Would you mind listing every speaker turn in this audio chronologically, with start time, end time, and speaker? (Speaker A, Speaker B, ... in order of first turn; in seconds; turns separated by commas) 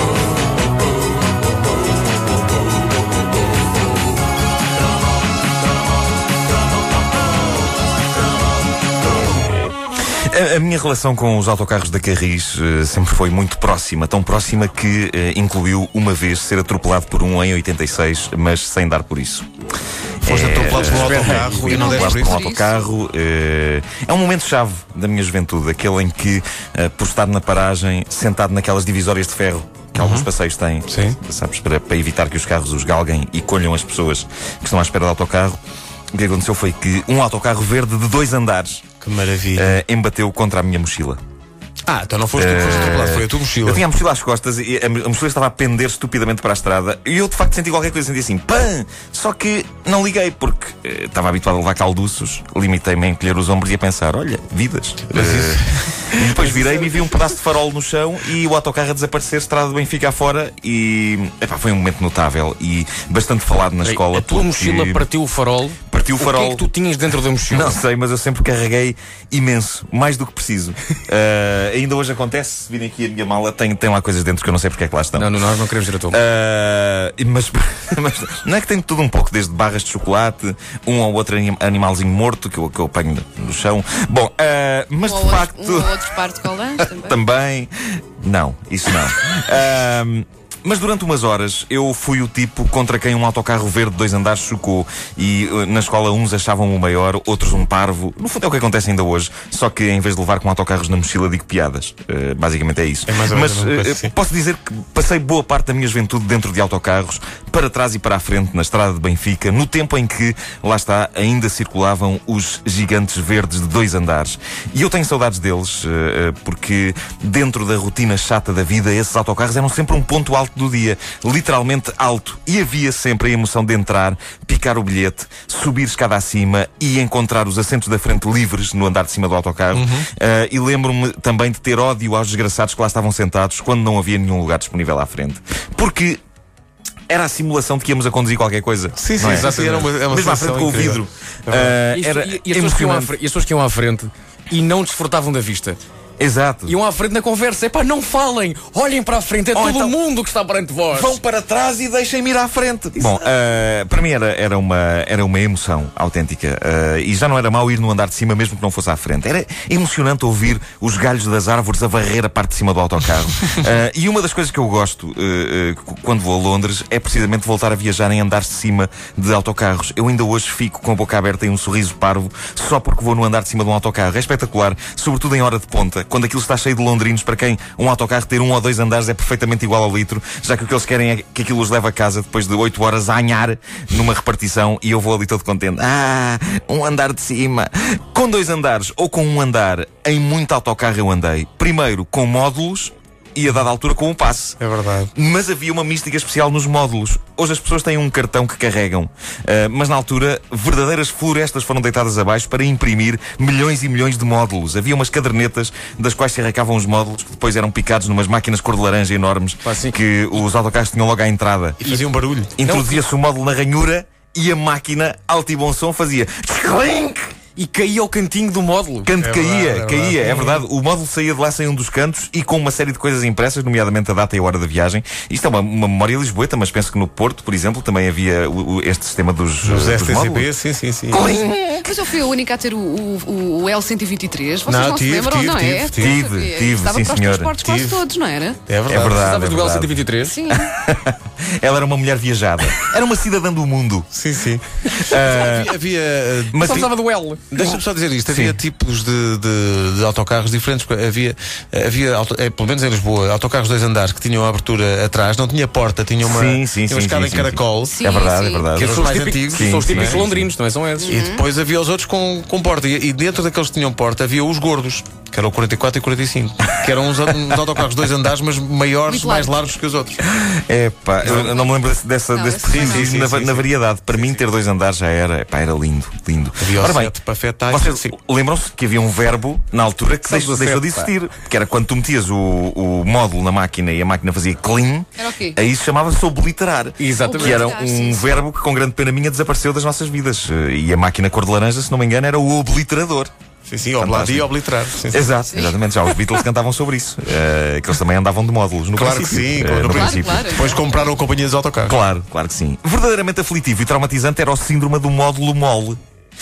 Speaker A: 10.3-19.5, Speaker A: 20.2-35.6, Speaker B: 20.2-22.4, Speaker C: 20.8-21.9, Speaker D: 21.7-22.8, Speaker B: 29.9-30.3, Speaker B: 30.9-31.2, Speaker A: 36.1-38.9, Speaker B: 39.0-39.8, Speaker A: 39.5-41.2, Speaker B: 41.9-43.9, Speaker A: 42.4-65.1, Speaker D: 42.7-43.0, Speaker B: 55.1-56.2, Speaker C: 56.5-57.1, Speaker C: 63.8-67.8, Speaker A: 65.9-66.7, Speaker A: 67.5-75.3, Speaker C: 75.2-76.2, Speaker A: 76.1-86.0, Speaker D: 85.0-87.2, Speaker A: 86.9-136.2, Speaker B: 103.1-104.1, Speaker B: 129.7-130.1, Speaker A: 137.1-139.5, Speaker B: 139.0-141.8, Speaker C: 139.2-139.9, Speaker A: 140.1-143.1, Speaker C: 141.9-145.8, Speaker A: 146.2-146.8, Speaker C: 146.7-151.2, Speaker A: 149.5-149.9, Speaker A: 150.9-194.6, Speaker B: 194.6-195.1, Speaker A: 195.1-211.8, Speaker C: 209.6-210.0, Speaker B: 211.8-212.6, Speaker A: 212.6-217.3, Speaker C: 212.6-213.0, Speaker C: 217.6-219.1, Speaker A: 219.1-230.5, Speaker B: 219.2-220.6, Speaker B: 229.6-231.3, Speaker A: 231.1-232.0, Speaker D: 231.8-238.6, Speaker B: 234.7-236.2, Speaker A: 236.0-237.5, Speaker B: 237.6-238.0, Speaker B: 238.7-239.3, Speaker A: 238.9-240.0, Speaker C: 239.2-240.4, Speaker D: 240.2-240.7, Speaker A: 240.6-244.1, Speaker B: 244.1-246.9, Speaker A: 244.9-245.7, Speaker A: 246.5-246.9, Speaker C: 246.6-247.4, Speaker B: 247.5-258.0, Speaker A: 247.6-248.6, Speaker A: 256.2-260.5, Speaker D: 257.9-258.7, Speaker B: 258.8-260.2, Speaker C: 258.8-261.1, Speaker D: 261.0-261.4, Speaker B: 261.1-270.2, Speaker D: 269.1-269.5, Speaker A: 270.2-293.3, Speaker B: 271.2-271.5, Speaker D: 271.4-271.7, Speaker D: 272.3-273.1, Speaker B: 272.7-273.6, Speaker B: 276.6-278.1, Speaker C: 280.3-281.1, Speaker D: 285.2-285.6, Speaker C: 287.0-287.7, Speaker D: 287.2-288.3, Speaker B: 293.7-295.2, Speaker A: 294.0-294.5, Speaker A: 295.1-300.6, Speaker B: 298.9-302.0, Speaker D: 299.9-300.9, Speaker A: 301.9-306.0